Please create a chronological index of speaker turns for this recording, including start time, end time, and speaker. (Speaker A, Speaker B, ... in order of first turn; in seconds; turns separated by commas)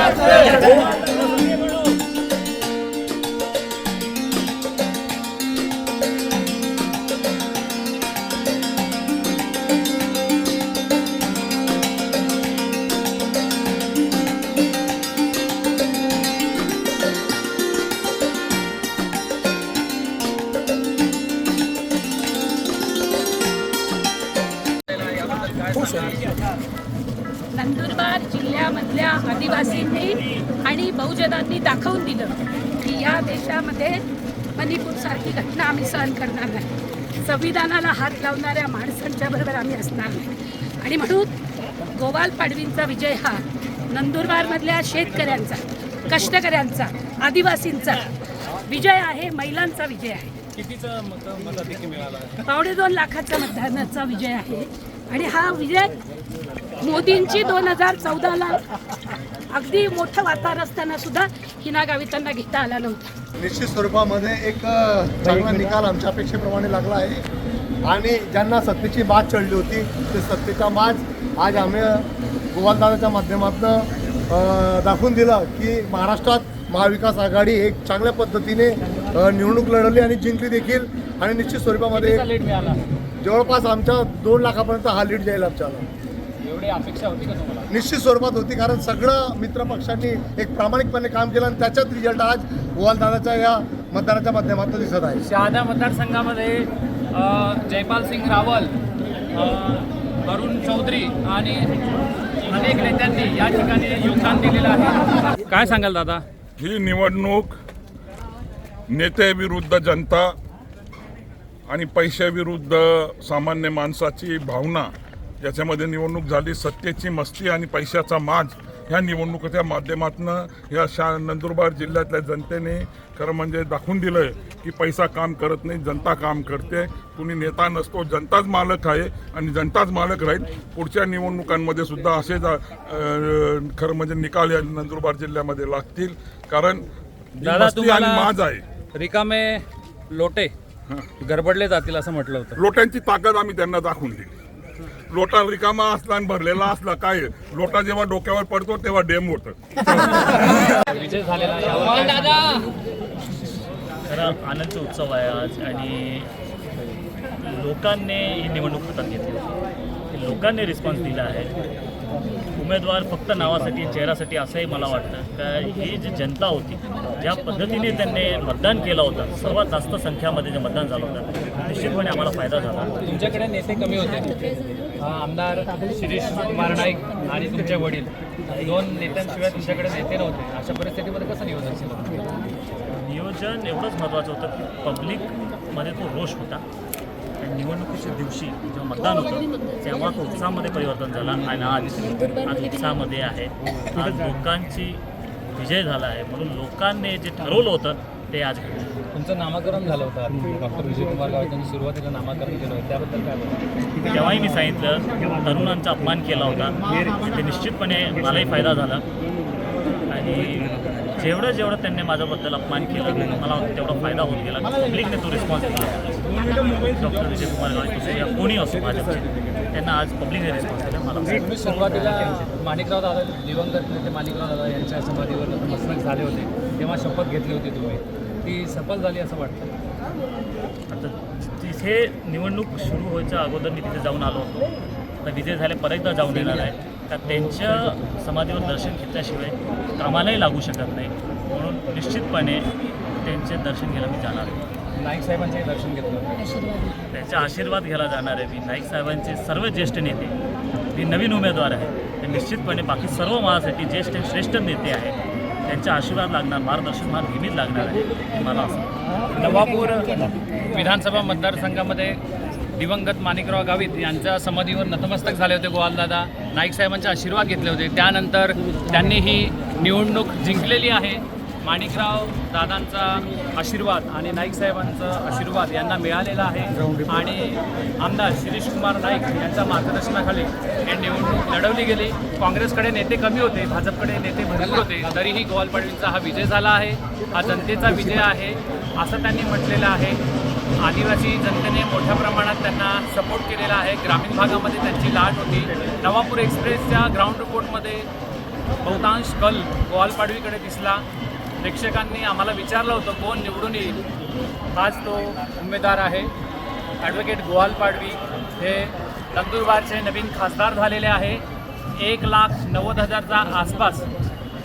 Speaker A: 25.2-26.1, Speaker B: 27.5-48.1, Speaker B: 48.6-50.3, Speaker A: 50.5-52.5, Speaker B: 52.5-56.0, Speaker B: 56.8-58.7, Speaker B: 59.5-63.1, Speaker C: 63.4-67.2, Speaker C: 67.8-82.3, Speaker A: 81.9-82.8, Speaker C: 83.2-85.8, Speaker A: 86.4-87.7, Speaker C: 87.7-95.3, Speaker A: 95.2-98.8, Speaker A: 99.3-101.7, Speaker A: 102.4-106.2, Speaker D: 106.6-107.5, Speaker D: 108.9-110.3, Speaker D: 111.7-136.8, Speaker D: 137.4-138.6, Speaker A: 137.4-138.4, Speaker A: 138.9-140.5, Speaker A: 141.2-142.6, Speaker D: 142.6-144.3, Speaker D: 145.1-150.1, Speaker A: 150.6-152.6, Speaker E: 154.1-156.3, Speaker E: 157.4-159.4, Speaker E: 160.1-161.5, Speaker E: 162.6-172.9, Speaker A: 173.0-174.3, Speaker A: 175.0-182.3, Speaker E: 182.9-186.6, Speaker E: 187.4-195.0, Speaker E: 195.5-199.0, Speaker A: 199.1-203.6, Speaker E: 204.1-209.0, Speaker E: 210.1-222.4, Speaker A: 221.4-229.7, Speaker E: 230.9-234.7, Speaker E: 235.2-242.7, Speaker E: 243.2-244.7, Speaker A: 244.9-246.5, Speaker B: 246.5-246.9, Speaker E: 247.1-250.4, Speaker E: 250.9-258.9, Speaker A: 259.3-262.2, Speaker A: 262.8-290.2, Speaker A: 290.8-298.1, Speaker A: 298.8-301.0, Speaker A: 301.6-304.0, Speaker A: 304.7-306.3, Speaker A: 307.0-311.4, Speaker A: 311.9-314.1